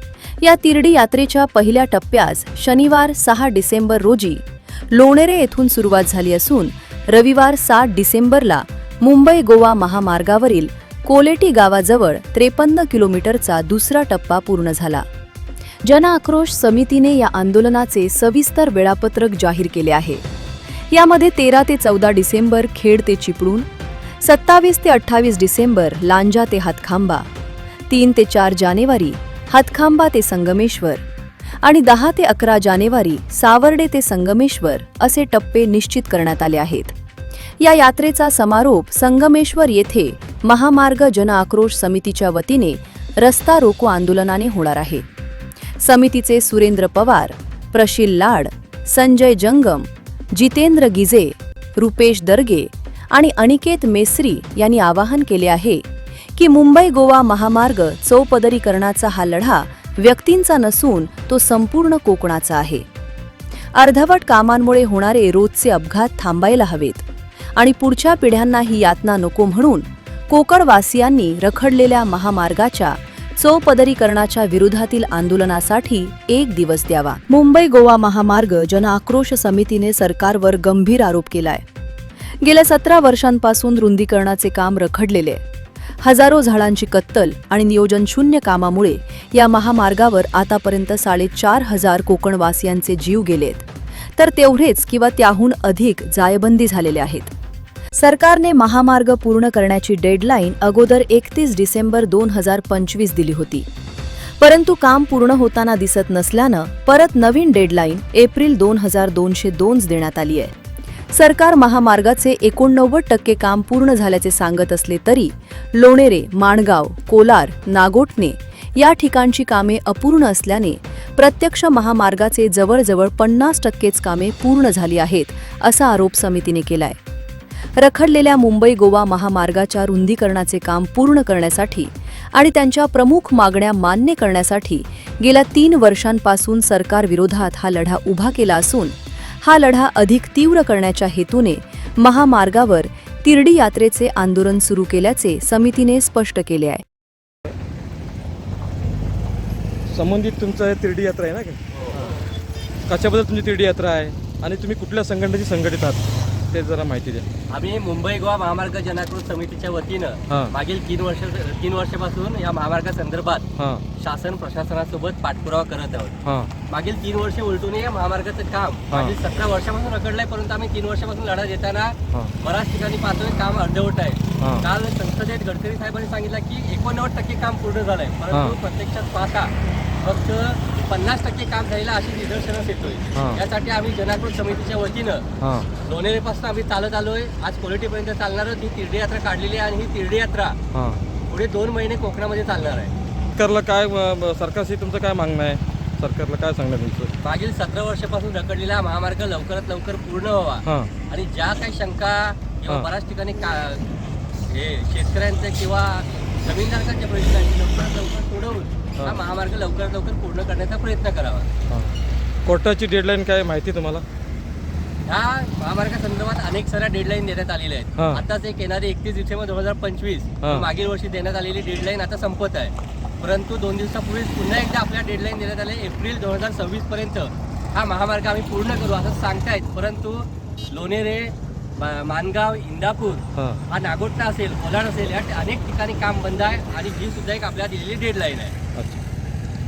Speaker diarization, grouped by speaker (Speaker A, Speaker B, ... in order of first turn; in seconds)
Speaker A: 0.4-15.0, 15.8-20.2, 20.9-23.7, 24.2-27.3, 27.9-31.0, 31.6-37.0, 37.6-45.0, 45.8-55.8, 56.4-62.9, 63.8-81.6, 82.4-85.4, 86.0-93.7, 94.2-97.3, 98.0-103.7, 104.4-110.5, 111.1-127.0, 127.8-146.8
Speaker B: 149.9-152.2, 152.9-157.3, 163.6-163.8, 166.2-166.5, 178.3-178.6, 185.4-185.7, 190.7-191.0, 193.4-197.1, 200.7-200.9, 212.4-214.1, 233.3-233.6, 238.8-239.0
Speaker C: 151.8-152.0, 157.5-163.5, 164.0-166.2, 166.7-185.3, 185.8-190.6, 191.3-192.9, 197.2-203.9, 204.5-211.5, 215.1-238.6